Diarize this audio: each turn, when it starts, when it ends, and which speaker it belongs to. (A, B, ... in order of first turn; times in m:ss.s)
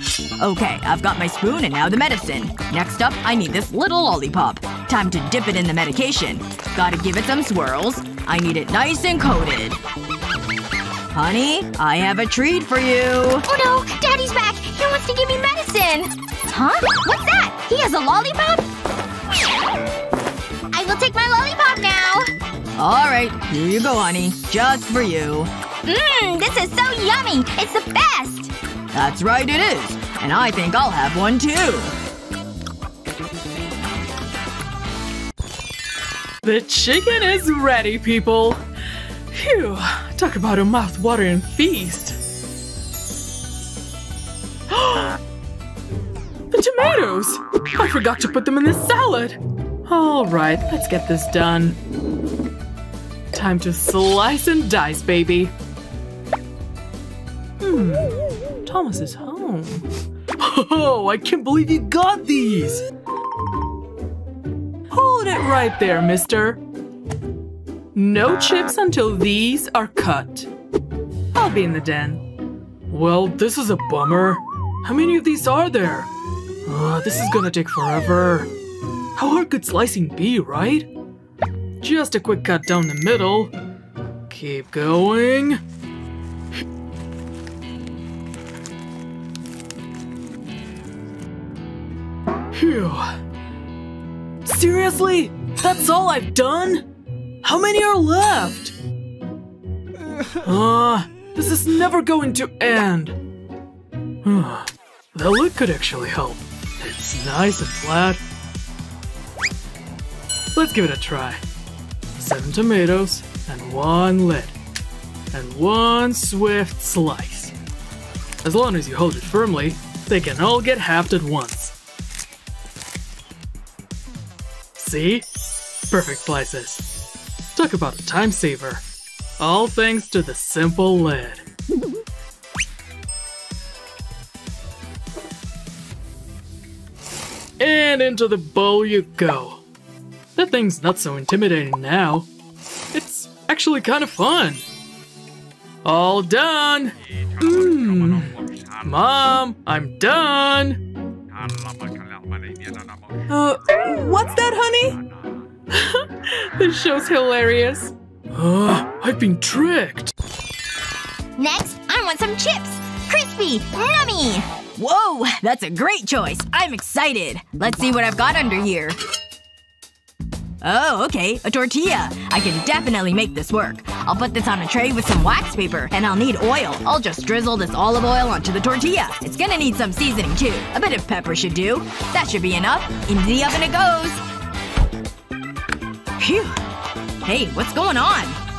0:00.4-0:09.8 A
0:11.1-0:13.5 A
0:13.5-0:18.7 B
0:20.7-0:22.3 B
0:22.8-0:25.5 A
0:25.8-0:28.5 B
0:28.9-0:31.9 A
0:36.4-0:38.6 C
0:39.3-0:42.2 C
0:44.7-0:45.2 C
0:46.5-0:51.8 C
0:53.3-0:55.5 C
0:57.6-0:59.9 C
1:00.4-1:02.8 C
1:04.9-1:06.6 C
1:07.9-1:10.5 C
1:11.3-1:12.2 C
1:12.9-1:16.1 C
1:16.6-1:18.5 C
1:19.2-1:20.9 C
1:21.8-1:23.5 C
1:24.3-1:25.6 C
1:32.5-1:33.2 C
1:34.4-1:36.9 C
1:37.4-1:38.8 C
1:40.4-1:43.2 C
1:44.2-1:48.2 C
1:50.5-1:51.4 C
1:52.2-1:54.6 C
1:55.3-1:57.6 C
1:58.4-2:01.7 C
2:04.8-2:05.2 C
2:05.9-2:06.8 C
2:07.5-2:08.8 C
2:09.4-2:11.4 C
2:17.6-2:19.6 C
2:20.4-2:22.3 C
2:22.9-2:24.6 C
2:25.8-2:30.8 C
2:33.3-2:35.0 C
2:35.7-2:40.1 C
2:41.4-2:44.5 B
2:44.8-2:49.0 A
2:50.6-3:04.2 A
3:06.2-3:06.6 A
3:07.2-3:08.4 A